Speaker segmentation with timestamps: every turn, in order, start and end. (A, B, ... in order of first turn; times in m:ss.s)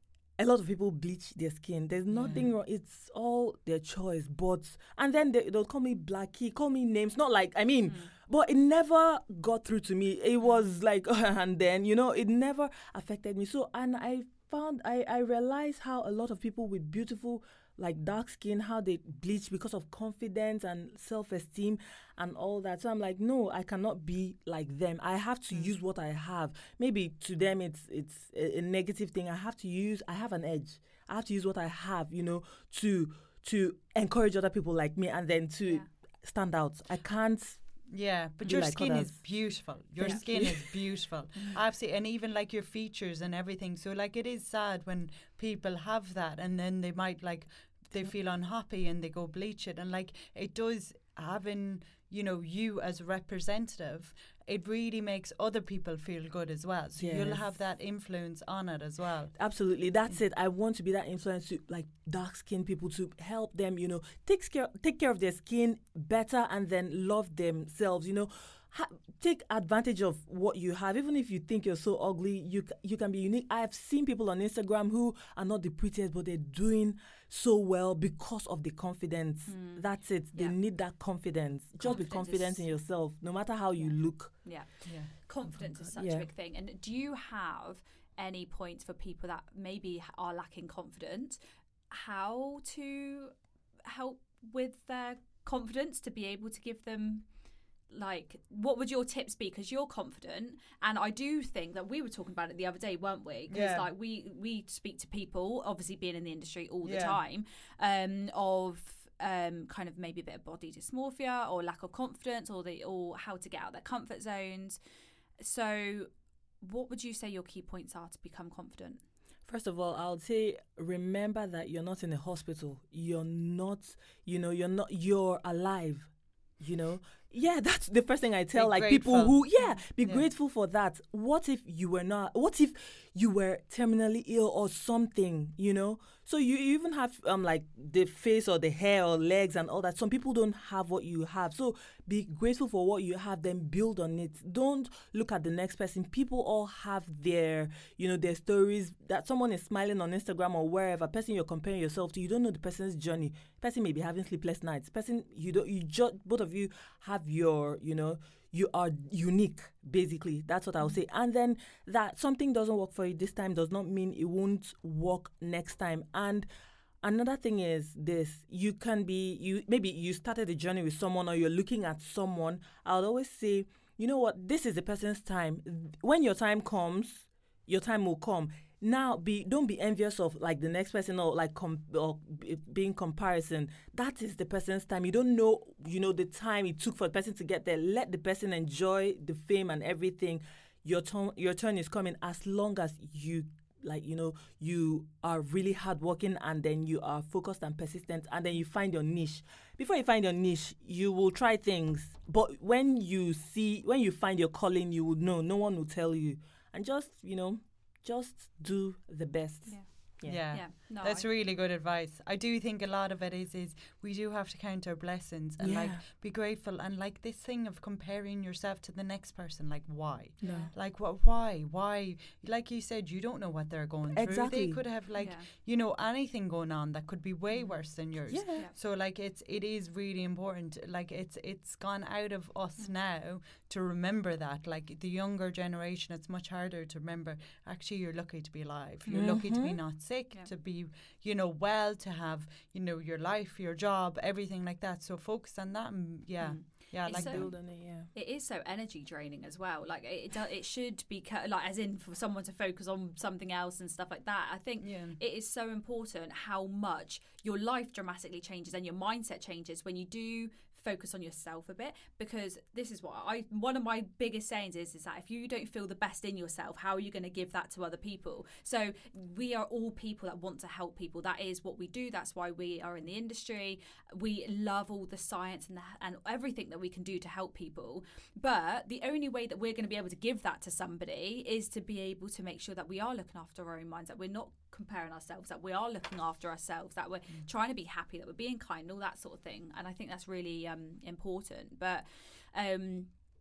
0:00.4-0:37.6 A
0:02.1-0:02.5 B
0:07.8-0:08.1 C
0:37.9-0:59.3 B
0:38.4-0:39.4 A
0:40.0-0:40.7 A
0:57.0-0:57.4 A
0:59.3-1:24.5 A
1:19.5-1:20.6 C
1:21.8-1:22.7 C
1:23.8-1:37.3 C
1:24.8-1:25.1 B
1:25.5-1:26.3 A
1:37.9-1:54.8 C
1:43.5-1:43.8 B
1:46.8-1:47.2 B
1:55.4-1:56.1 C
1:56.6-1:59.0 C
1:59.4-2:46.5 A
2:08.5-2:10.2 B
2:09.6-2:09.8 C
2:47.0-3:30.4 A
3:29.6-3:31.2 C
3:30.2-4:07.4 B
3:35.6-3:36.0 A
3:40.4-3:40.7 A
3:40.4-3:40.7 C
3:44.1-3:44.8 A
3:45.1-3:45.5 C
3:47.5-3:47.8 C
3:48.3-3:48.7 A
3:59.0-3:59.4 C
3:59.1-3:59.8 A
4:06.4-4:53.1 C
4:07.1-4:08.1 A
4:14.8-4:15.2 B